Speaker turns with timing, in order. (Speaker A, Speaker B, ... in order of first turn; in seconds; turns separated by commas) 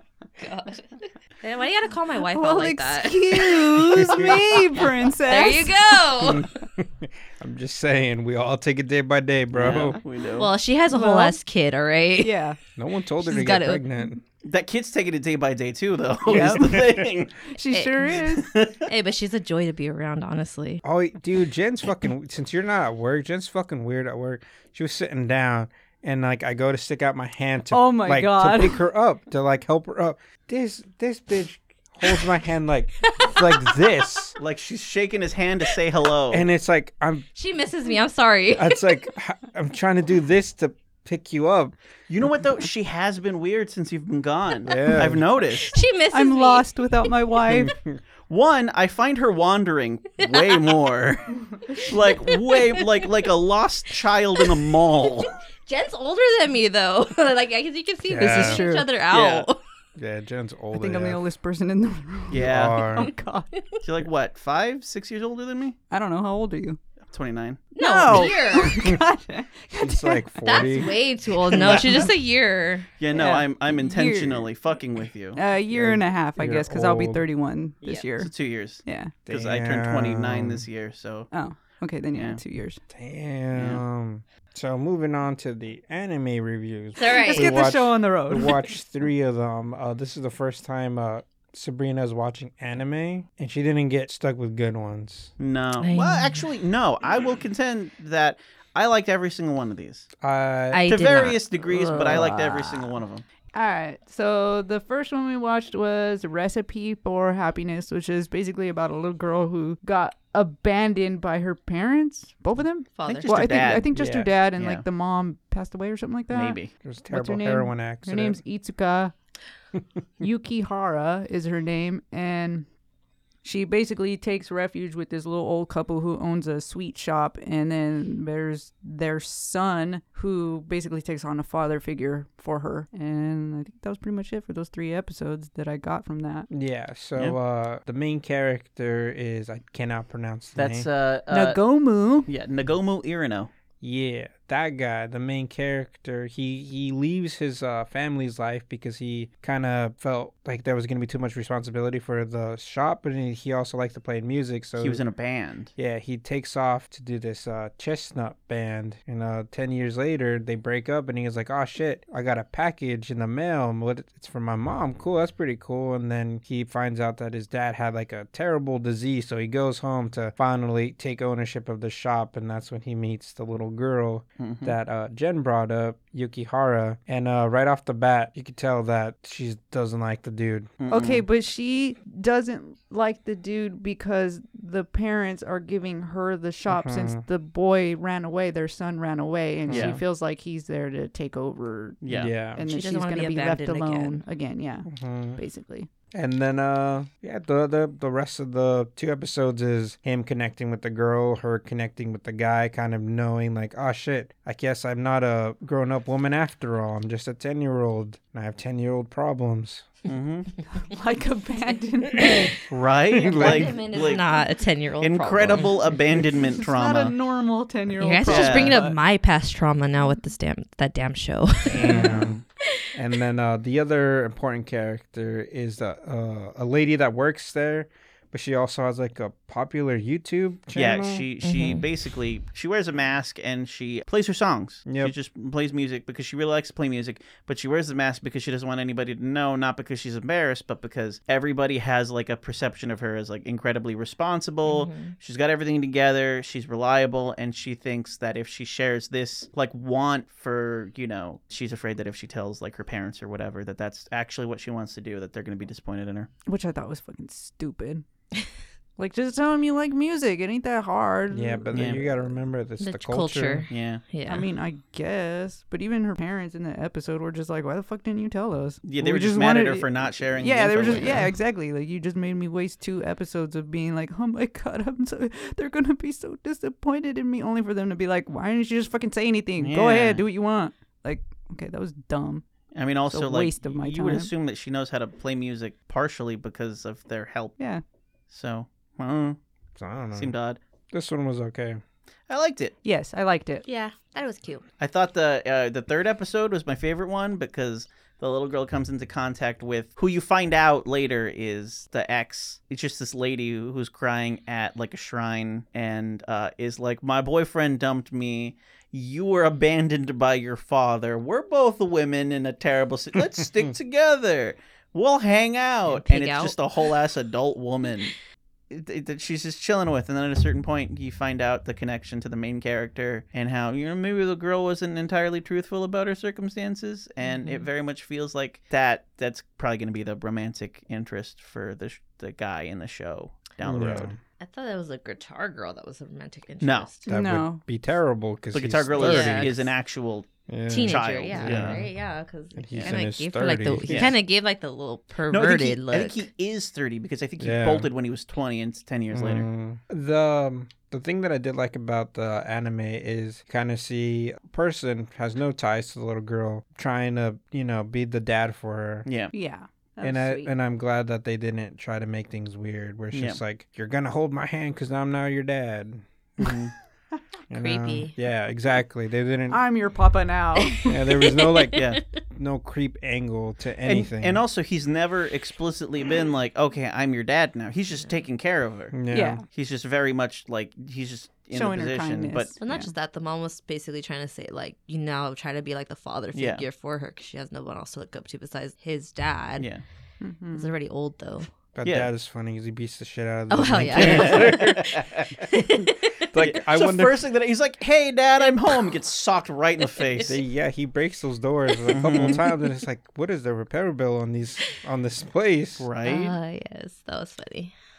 Speaker A: 0.4-4.4, Speaker B: 2.3-6.0, Speaker C: 4.1-4.4, Speaker A: 5.3-6.5, Speaker C: 6.2-10.0, Speaker D: 9.5-10.5, Speaker A: 10.4-12.4, Speaker B: 10.9-11.4, Speaker B: 12.2-12.6, Speaker C: 12.8-14.2, Speaker A: 13.2-13.8, Speaker D: 14.4-17.4, Speaker B: 16.3-16.7, Speaker C: 16.3-17.1, Speaker B: 17.5-18.5, Speaker A: 17.7-18.2, Speaker D: 18.1-18.9, Speaker A: 18.9-20.8, Speaker C: 20.8-34.4, Speaker B: 27.7-28.8, Speaker A: 33.0-33.4, Speaker D: 34.4-36.5, Speaker C: 36.3-37.3, Speaker A: 37.4-38.9, Speaker C: 38.5-41.7, Speaker D: 42.1-45.8, Speaker C: 44.6-45.3, Speaker A: 45.7-46.7, Speaker B: 46.1-47.7, Speaker C: 47.5-48.0, Speaker D: 48.3-55.4, Speaker A: 51.9-52.8, Speaker A: 55.7-59.6, Speaker C: 58.0-58.6, Speaker B: 58.2-58.9, Speaker D: 59.1-59.5, Speaker C: 60.0-61.2, Speaker B: 60.7-63.5, Speaker D: 62.3-62.9, Speaker C: 62.4-63.1, Speaker D: 63.8-65.8, Speaker B: 65.9-66.8, Speaker D: 67.1-67.7, Speaker A: 67.8-68.8, Speaker B: 67.8-70.7, Speaker C: 69.8-71.0, Speaker A: 70.4-72.9, Speaker D: 71.5-72.0, Speaker B: 71.7-72.0, Speaker D: 73.0-75.4, Speaker B: 73.1-74.5, Speaker B: 75.4-78.3, Speaker C: 75.7-77.2, Speaker D: 78.2-81.3, Speaker B: 78.8-79.1, Speaker C: 79.3-80.7, Speaker B: 81.3-82.8, Speaker D: 82.1-82.4, Speaker C: 82.9-95.3, Speaker D: 83.5-83.8, Speaker A: 87.0-87.5, Speaker B: 87.2-88.6, Speaker D: 95.4-100.1, Speaker A: 95.8-96.4, Speaker C: 100.2-100.9, Speaker A: 100.7-102.9, Speaker D: 100.9-103.2, Speaker B: 103.5-116.6, Speaker A: 113.0-113.5, Speaker D: 113.1-114.8, Speaker C: 113.9-114.3, Speaker D: 116.3-116.7, Speaker C: 116.8-118.4, Speaker B: 117.1-119.1, Speaker B: 120.2-122.7, Speaker B: 123.4-136.5, Speaker C: 136.5-140.9, Speaker D: 140.6-141.6, Speaker B: 141.3-142.3, Speaker D: 142.3-143.5, Speaker C: 143.8-155.0, Speaker D: 154.8-155.7, Speaker C: 155.8-180.7, Speaker D: 174.4-174.8, Speaker D: 180.8-181.2, Speaker B: 180.9-192.0, Speaker C: 186.7-187.2, Speaker C: 189.7-190.0, Speaker D: 189.7-190.0, Speaker D: 192.0-192.3, Speaker C: 192.1-192.6, Speaker B: 192.5-195.9, Speaker A: 192.6-194.2, Speaker C: 194.9-195.4, Speaker C: 196.1-209.9, Speaker D: 210.1-210.6, Speaker B: 210.8-212.6, Speaker D: 212.6-214.5, Speaker C: 213.1-213.8, Speaker A: 213.2-215.8, Speaker D: 215.0-217.1, Speaker B: 216.6-219.0, Speaker A: 218.0-222.0, Speaker D: 218.3-218.8, Speaker C: 221.7-222.4, Speaker D: 221.8-222.4, Speaker C: 222.9-231.2, Speaker D: 230.7-256.3, Speaker A: 231.4-231.8, Speaker C: 234.9-235.1, Speaker A: 244.7-245.2, Speaker B: 256.5-258.1, Speaker B: 259.0-262.1, Speaker C: 261.3-263.7, Speaker D: 261.7-262.0, Speaker A: 262.8-264.5, Speaker D: 263.7-264.0, Speaker B: 264.3-282.4, Speaker D: 268.8-271.3, Speaker D: 279.6-280.2, Speaker D: 282.7-287.6, Speaker B: 283.1-284.3, Speaker B: 287.6-287.8, Speaker D: 288.3-289.4, Speaker C: 289.8-290.3, Speaker D: 290.1-290.6, Speaker C: 290.9-291.8, Speaker D: 292.3-292.8, Speaker B: 292.8-293.6, Speaker A: 293.6-294.6, Speaker D: 294.8-318.1, Speaker A: 316.0-316.6, Speaker D: 318.7-334.1, Speaker A: 327.3-327.6, Speaker C: 333.6-334.2, Speaker A: 334.4-337.1, Speaker D: 336.6-336.9, Speaker C: 337.1-339.6, Speaker B: 337.1-337.6, Speaker D: 338.5-341.8, Speaker A: 339.0-339.7, Speaker C: 340.5-341.9, Speaker A: 340.7-346.3, Speaker C: 342.6-344.1, Speaker D: 343.9-344.2, Speaker D: 345.3-349.5, Speaker C: 347.4-347.9, Speaker C: 349.1-359.1, Speaker D: 359.1-359.3, Speaker B: 359.3-360.5, Speaker C: 360.0-366.6, Speaker D: 363.1-363.4, Speaker D: 366.4-366.7, Speaker C: 367.5-369.6, Speaker A: 367.5-368.1, Speaker B: 369.5-371.0, Speaker A: 370.6-372.2, Speaker C: 370.9-374.4, Speaker D: 371.7-372.0, Speaker D: 373.8-379.0, Speaker C: 378.9-379.4, Speaker B: 379.1-379.4, Speaker D: 379.5-382.5, Speaker B: 381.5-382.9, Speaker A: 382.6-389.7, Speaker D: 386.3-386.6, Speaker B: 390.2-390.7, Speaker A: 390.5-391.5, Speaker C: 391.8-394.9, Speaker D: 391.8-392.1, Speaker A: 393.5-394.8, Speaker D: 393.9-395.4, Speaker A: 395.5-396.3, Speaker C: 396.3-397.2, Speaker D: 396.4-400.4, Speaker C: 400.3-405.9, Speaker D: 401.9-402.4, Speaker D: 405.8-406.4, Speaker A: 406.0-407.7